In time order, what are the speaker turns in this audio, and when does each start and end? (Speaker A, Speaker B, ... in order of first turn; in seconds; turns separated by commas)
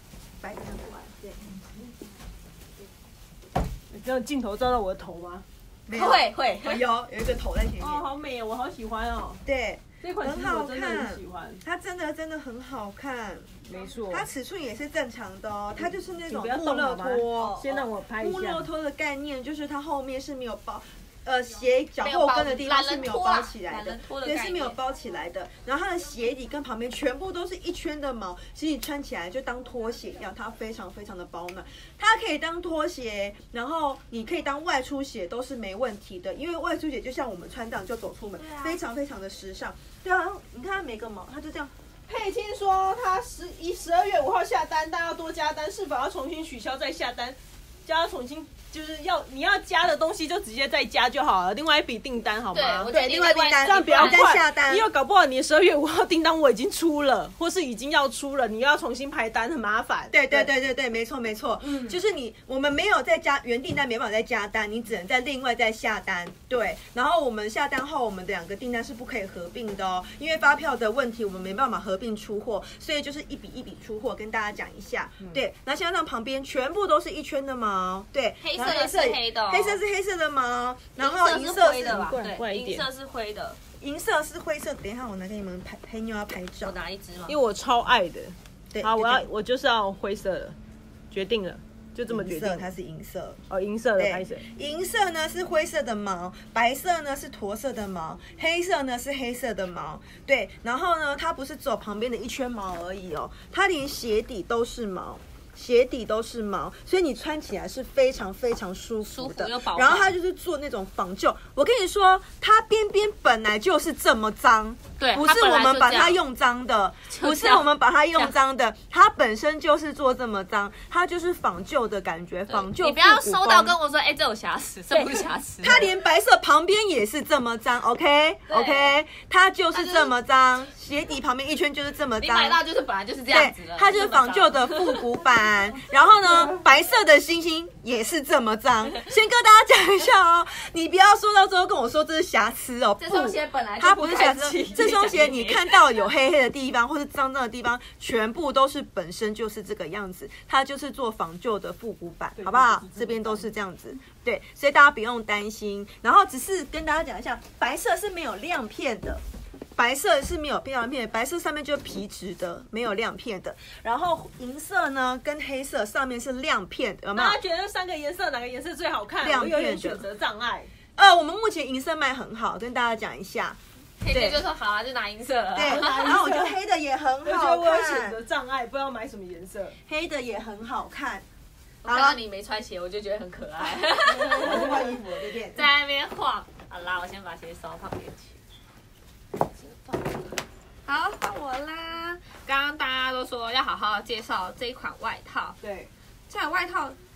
Speaker A: 0.4-1.5, Speaker B: 3.9-5.5, Speaker A: 5.9-8.1, Speaker C: 5.9-6.8, Speaker B: 7.8-9.4, Speaker A: 9.4-13.6, Speaker B: 10.0-11.6, Speaker B: 13.6-14.3, Speaker A: 14.1-17.7, Speaker B: 15.8-18.7, Speaker C: 17.4-17.8, Speaker A: 18.2-41.7, Speaker C: 22.0-24.8, Speaker C: 38.4-38.8, Speaker B: 42.1-52.9, Speaker C: 52.5-54.2, Speaker A: 52.9-54.9, Speaker B: 53.6-60.5, Speaker A: 60.1-82.2, Speaker C: 78.4-79.8, Speaker C: 81.0-83.6, Speaker B: 81.8-82.9, Speaker A: 83.8-86.8, Speaker C: 86.6-87.4, Speaker B: 87.3-90.5, Speaker A: 88.7-89.3, Speaker B: 91.1-92.7, Speaker A: 92.1-93.4, Speaker B: 93.5-94.5, Speaker A: 94.0-123.8, Speaker C: 109.0-110.1, Speaker C: 115.0-116.2, Speaker C: 117.1-118.3, Speaker C: 122.5-125.8, Speaker B: 124.9-125.3, Speaker A: 125.6-132.6, Speaker C: 128.5-128.9, Speaker C: 129.7-130.1, Speaker C: 132.2-135.0, Speaker A: 133.3-159.2, Speaker C: 143.0-145.8, Speaker B: 152.4-153.5, Speaker A: 159.8-167.4, Speaker B: 167.1-170.7, Speaker A: 169.2-170.1, Speaker A: 171.0-173.6, Speaker C: 174.0-176.2, Speaker A: 174.1-174.4, Speaker A: 175.5-178.2, Speaker B: 175.6-176.6, Speaker B: 177.2-179.8, Speaker A: 179.9-181.2, Speaker C: 181.8-184.9, Speaker A: 181.8-182.2, Speaker B: 184.1-185.1, Speaker A: 184.3-185.6, Speaker C: 185.5-188.4, Speaker C: 189.6-190.3, Speaker C: 190.9-195.6, Speaker B: 195.6-195.9, Speaker C: 196.3-197.0